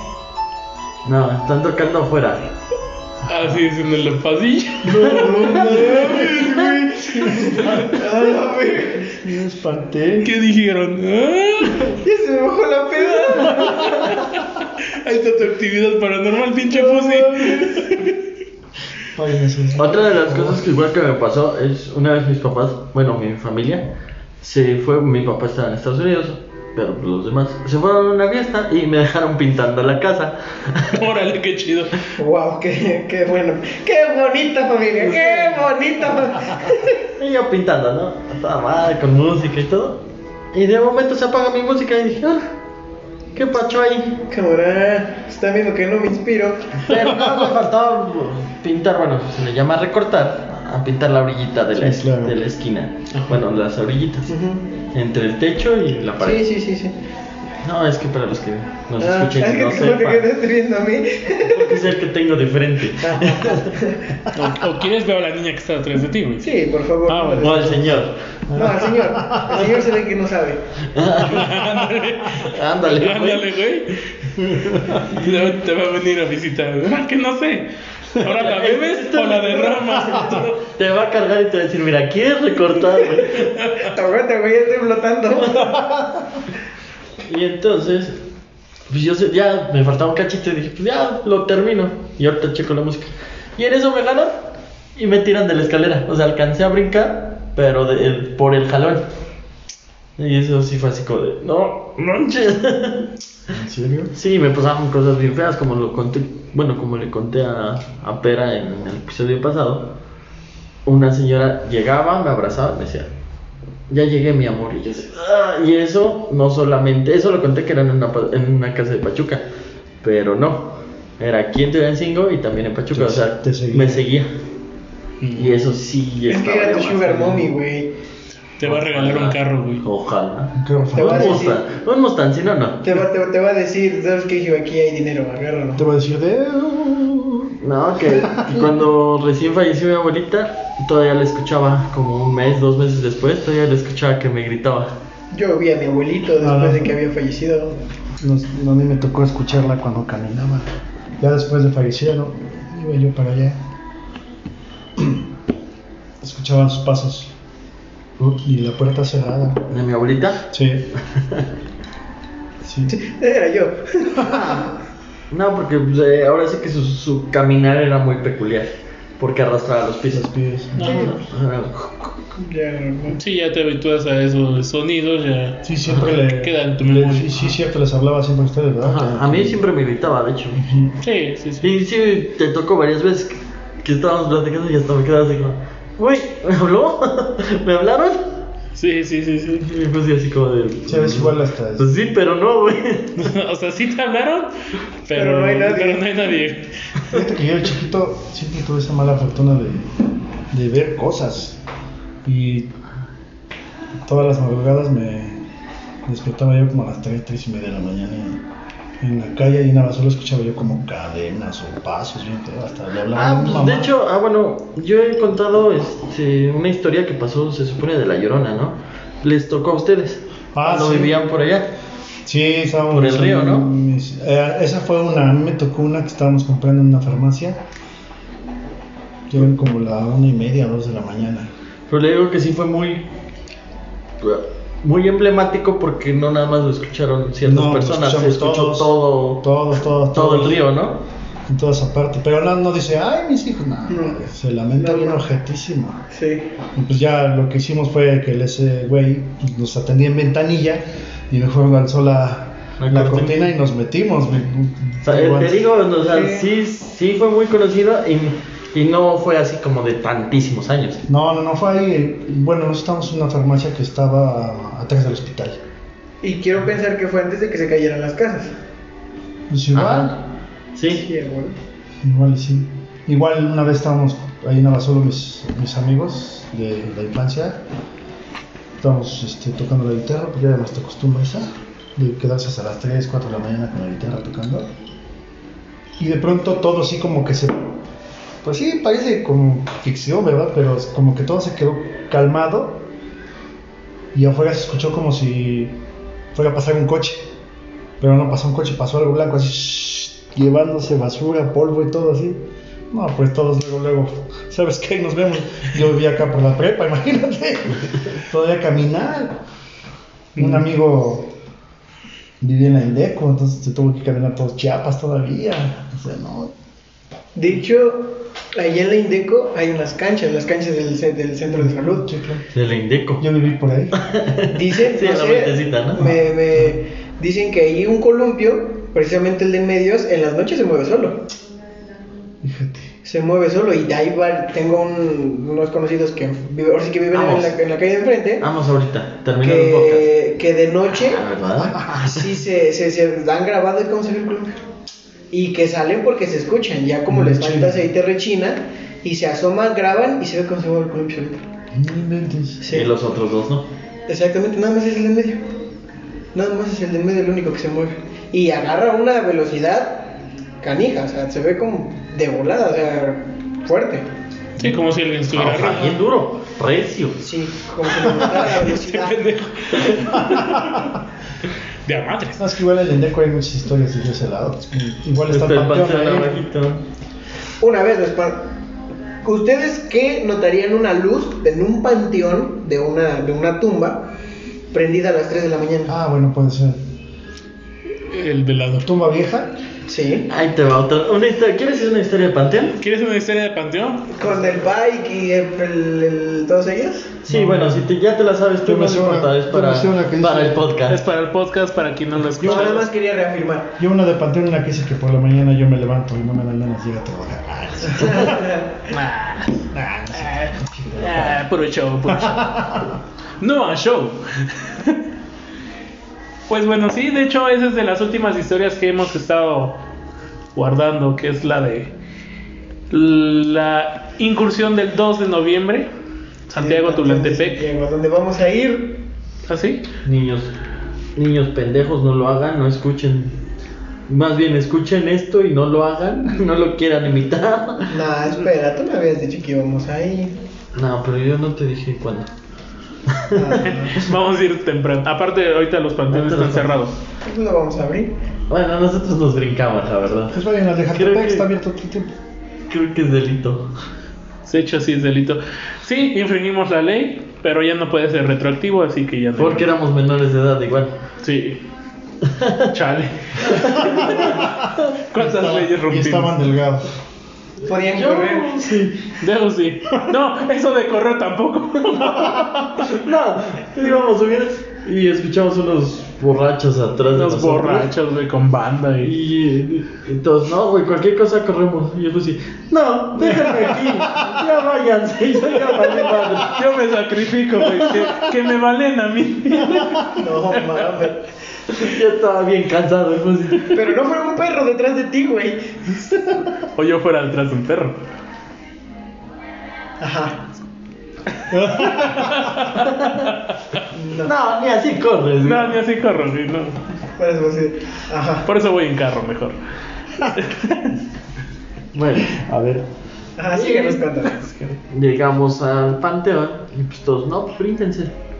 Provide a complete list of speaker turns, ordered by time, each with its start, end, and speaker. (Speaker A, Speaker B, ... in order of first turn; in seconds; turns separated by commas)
Speaker A: 1.0-2.5, Speaker B: 3.2-5.4, Speaker C: 4.8-8.3, Speaker A: 4.9-6.8, Speaker D: 5.3-9.2, Speaker B: 7.6-7.8, Speaker C: 9.0-10.3, Speaker B: 10.2-11.9, Speaker D: 11.9-14.2, Speaker B: 13.4-18.1, Speaker D: 16.8-17.6, Speaker C: 17.1-17.8, Speaker C: 19.1-20.6, Speaker A: 19.7-31.1, Speaker B: 30.9-32.1, Speaker D: 32.1-37.0, Speaker A: 35.0-35.7, Speaker A: 37.2-40.0, Speaker A: 40.5-42.4, Speaker A: 43.4-44.2, Speaker D: 44.3-46.8, Speaker A: 46.8-54.3, Speaker C: 46.9-47.5, Speaker C: 51.8-52.4, Speaker D: 54.3-54.6, Speaker A: 54.9-56.5, Speaker D: 56.2-56.9, Speaker A: 57.6-60.3, Speaker D: 59.0-61.9, Speaker A: 61.4-63.8, Speaker D: 63.0-64.1, Speaker B: 64.3-66.5, Speaker D: 66.4-70.6, Speaker B: 67.0-67.6, Speaker A: 67.4-68.8, Speaker C: 68.5-69.7, Speaker A: 70.9-71.5, Speaker B: 71.2-74.0, Speaker A: 72.4-73.5, Speaker A: 74.4-75.5, Speaker B: 74.9-80.6, Speaker A: 78.2-83.5, Speaker D: 82.9-85.8, Speaker B: 83.6-83.9, Speaker C: 85.7-86.4, Speaker A: 87.2-88.2, Speaker A: 88.9-99.1, Speaker A: 100.2-103.1, Speaker C: 103.5-104.1, Speaker A: 104.1-109.9, Speaker A: 110.8-113.1, Speaker A: 113.9-119.4, Speaker A: 120.0-124.3, Speaker C: 122.9-124.0, Speaker B: 125.2-125.6, Speaker A: 125.3-127.5, Speaker D: 126.3-127.9, Speaker B: 128.6-129.8, Speaker A: 128.6-132.8, Speaker C: 130.6-131.5, Speaker D: 130.9-131.6, Speaker D: 132.8-135.8, Speaker C: 135.8-137.5, Speaker A: 137.6-144.9, Speaker C: 138.2-138.7, Speaker D: 145.3-147.8, Speaker C: 146.4-146.9, Speaker C: 148.2-153.6, Speaker C: 156.2-157.3, Speaker C: 158.2-159.6, Speaker A: 159.7-161.5, Speaker C: 160.5-160.9, Speaker C: 162.6-162.9, Speaker D: 162.9-164.7, Speaker C: 164.2-164.6, Speaker A: 165.3-170.3, Speaker C: 170.1-171.1, Speaker B: 170.8-171.1, Speaker A: 170.8-172.1, Speaker D: 170.8-171.2, Speaker D: 172.3-173.2, Speaker B: 173.1-177.3, Speaker C: 175.6-179.6, Speaker A: 178.8-180.6, Speaker C: 180.5-180.9, Speaker B: 181.0-181.7, Speaker A: 181.6-188.4, Speaker B: 188.8-189.7, Speaker A: 189.6-193.3, Speaker C: 190.9-191.9, Speaker B: 193.2-194.5, Speaker B: 195.0-196.7, Speaker D: 195.1-196.1, Speaker C: 197.1-199.9, Speaker C: 200.5-201.6, Speaker C: 202.2-202.7, Speaker C: 204.0-205.4, Speaker C: 206.0-208.4, Speaker C: 209.0-213.9, Speaker A: 213.1-221.7, Speaker C: 220.5-221.2, Speaker C: 222.2-227.6, Speaker A: 222.9-223.7, Speaker C: 229.3-231.5, Speaker A: 231.9-233.1, Speaker A: 234.2-239.5, Speaker C: 237.4-240.6, Speaker A: 240.1-241.0, Speaker C: 241.5-246.0, Speaker D: 243.9-244.2, Speaker D: 244.8-245.2, Speaker D: 246.1-246.5, Speaker C: 246.7-255.7, Speaker A: 252.8-253.5, Speaker A: 255.0-261.0, Speaker D: 256.0-256.5, Speaker C: 261.1-265.6, Speaker D: 266.2-268.5, Speaker C: 269.5-270.1, Speaker A: 269.7-270.2, Speaker A: 270.8-271.1, Speaker D: 270.9-271.6, Speaker C: 272.0-277.6, Speaker C: 278.8-284.7, Speaker C: 286.0-287.7, Speaker C: 288.4-292.8, Speaker C: 294.1-295.8, Speaker C: 296.3-297.2, Speaker C: 298.0-309.4, Speaker C: 310.4-311.3, Speaker C: 312.4-316.5, Speaker D: 317.3-322.1, Speaker C: 321.5-322.5, Speaker A: 322.5-323.2, Speaker C: 323.2-324.0, Speaker A: 323.9-326.1, Speaker D: 324.5-331.3, Speaker C: 325.9-326.7, Speaker C: 332.4-332.9, Speaker D: 333.0-338.5, Speaker A: 337.1-337.6, Speaker A: 338.4-340.1, Speaker D: 339.4-341.2, Speaker A: 340.9-342.2, Speaker C: 341.6-342.1, Speaker D: 342.0-344.6, Speaker D: 345.3-351.4, Speaker C: 347.1-347.9, Speaker C: 351.7-352.6, Speaker D: 352.6-352.9, Speaker A: 352.7-353.7, Speaker D: 354.1-355.4, Speaker D: 356.3-364.1, Speaker B: 364.6-366.0, Speaker A: 365.3-367.2, Speaker D: 367.2-369.2, Speaker B: 368.3-370.9, Speaker C: 370.2-370.8, Speaker B: 371.9-372.4, Speaker C: 372.4-376.4, Speaker A: 375.3-376.8, Speaker D: 377.6-378.5, Speaker D: 379.2-384.1, Speaker D: 384.7-385.9, Speaker C: 385.9-386.8, Speaker B: 388.1-388.9, Speaker C: 388.8-389.6, Speaker D: 389.9-390.3, Speaker A: 390.3-392.8, Speaker B: 392.8-394.2, Speaker D: 394.1-397.1, Speaker A: 397.2-401.0, Speaker C: 397.3-397.9, Speaker C: 398.6-400.7, Speaker B: 400.9-402.9, Speaker D: 402.4-403.7, Speaker C: 403.8-408.5, Speaker D: 407.9-408.8, Speaker B: 408.9-409.7, Speaker C: 409.7-411.4, Speaker B: 411.0-412.7, Speaker C: 412.1-413.0, Speaker B: 413.4-415.0, Speaker B: 416.5-419.8, Speaker B: 420.5-421.9, Speaker B: 422.9-425.9, Speaker B: 426.5-427.6, Speaker D: 426.6-429.0, Speaker B: 429.5-429.8, Speaker A: 430.0-430.5, Speaker A: 431.1-433.4, Speaker A: 434.1-437.9, Speaker D: 437.9-440.4, Speaker A: 440.7-442.3, Speaker A: 443.1-444.1, Speaker D: 443.3-443.9, Speaker B: 443.6-446.9, Speaker A: 446.1-446.8, Speaker D: 447.2-448.1, Speaker A: 448.5-450.4, Speaker C: 450.3-452.1, Speaker A: 450.9-451.5, Speaker A: 452.7-453.7, Speaker B: 454.4-459.7, Speaker A: 459.4-460.9, Speaker B: 461.2-461.6, Speaker A: 462.2-462.7, Speaker B: 462.7-466.4, Speaker A: 463.4-464.5, Speaker C: 463.9-464.6, Speaker C: 465.1-466.9, Speaker D: 467.6-468.6, Speaker A: 467.7-469.1, Speaker B: 469.2-472.9, Speaker C: 472.0-472.7, Speaker A: 472.8-477.9, Speaker B: 477.1-479.1, Speaker A: 479.0-486.6, Speaker C: 483.3-484.4, Speaker B: 486.4-491.0, Speaker C: 489.6-490.1, Speaker D: 490.1-491.2, Speaker A: 491.7-493.9, Speaker D: 493.7-496.0, Speaker B: 496.6-498.0, Speaker D: 500.0-500.4, Speaker C: 501.5-502.6, Speaker B: 501.7-503.8, Speaker A: 502.9-503.3, Speaker D: 503.9-504.3, Speaker A: 504.2-505.8, Speaker B: 505.4-506.8, Speaker D: 507.2-508.5, Speaker B: 508.4-509.6, Speaker B: 510.2-511.0, Speaker A: 511.9-512.4, Speaker C: 512.3-512.8, Speaker D: 513.4-514.4, Speaker A: 513.5-514.0, Speaker B: 514.2-514.8, Speaker A: 514.9-518.1